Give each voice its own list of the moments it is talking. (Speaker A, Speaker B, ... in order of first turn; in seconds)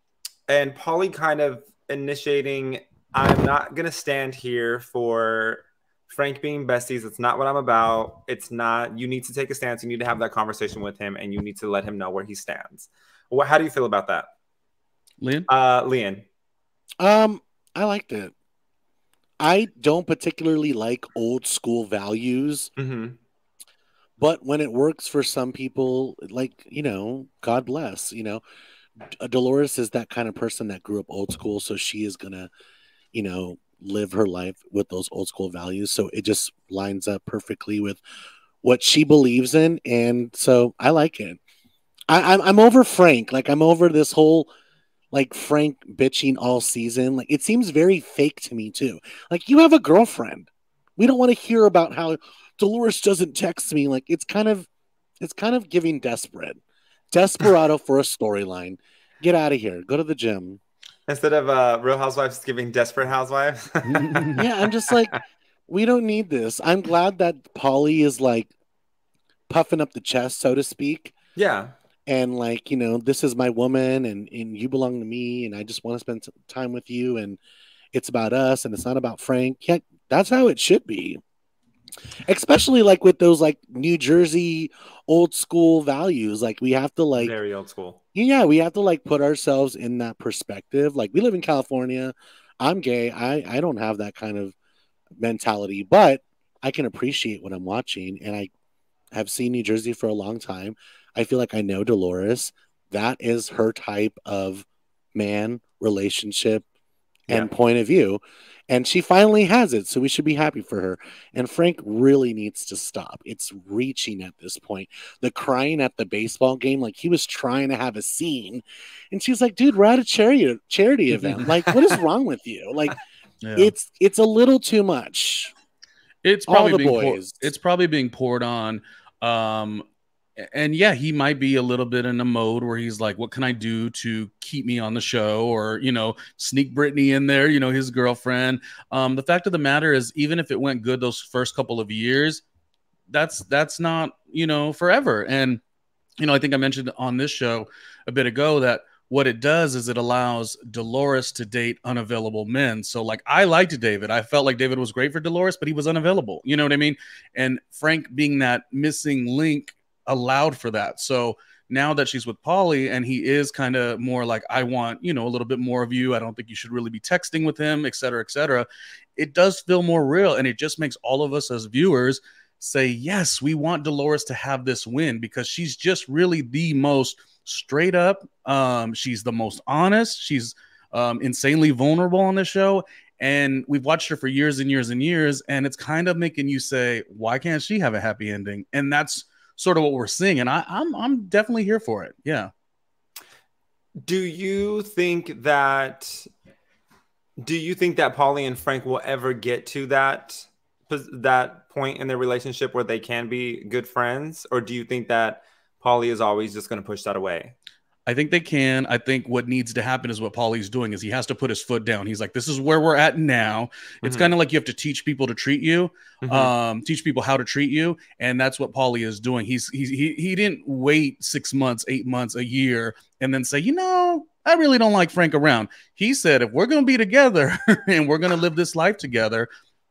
Speaker A: 0.5-14.3, 15.5-16.2, 22.8-23.2, 61.1-64.4, 71.4-71.7, 87.2-88.0, 194.1-196.3, 197.4-207.6, 214.0-214.3, 216.2-216.5
Speaker B: 15.2-15.5, 63.9-64.4, 121.2-121.5, 123.4-123.7, 126.2-129.8, 130.4-142.4, 143.1-145.6, 146.2-192.5, 208.1-229.5
Speaker C: 17.0-18.3, 19.4-22.7, 24.2-28.4, 29.0-32.5, 33.1-38.0, 38.6-41.4, 42.1-44.5, 45.1-54.7, 55.2-56.6, 57.1-60.6, 64.3-68.5, 69.5-71.1, 72.1-77.4, 77.9-81.2, 82.3-87.3, 88.1-94.5, 95.2-98.5, 99.1-106.7, 107.3-123.0, 123.6-125.5, 126.5-127.5